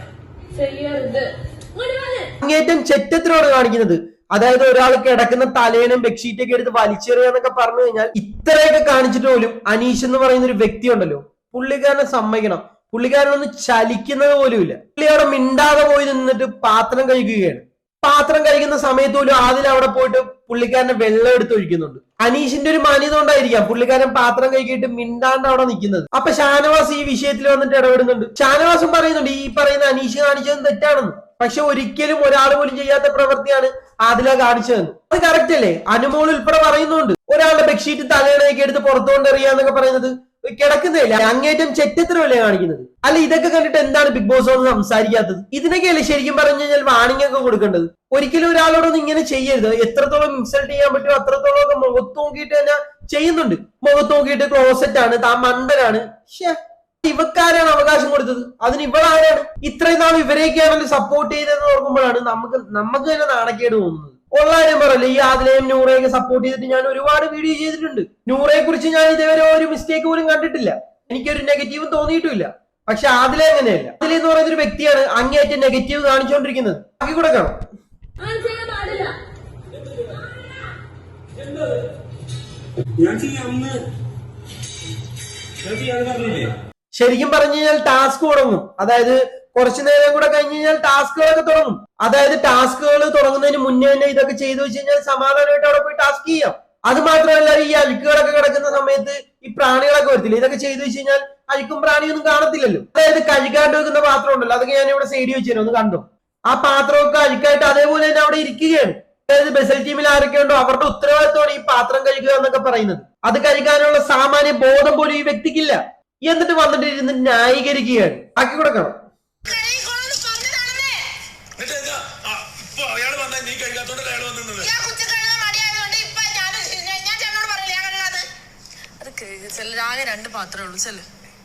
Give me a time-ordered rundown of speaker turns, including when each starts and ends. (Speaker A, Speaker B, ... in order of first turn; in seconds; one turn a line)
Speaker A: 0.5-2.2
Speaker B: 2.4-77.5
Speaker A: 78.2-79.1
Speaker C: 81.4-81.7
Speaker C: 83.0-83.8
Speaker C: 85.6-86.5
Speaker B: 86.9-119.0
Speaker D: 119.5-121.0
Speaker E: 121.6-124.7
Speaker D: 124.6-128.3
Speaker D: 129.0-131.0
Speaker A: 130.1-130.6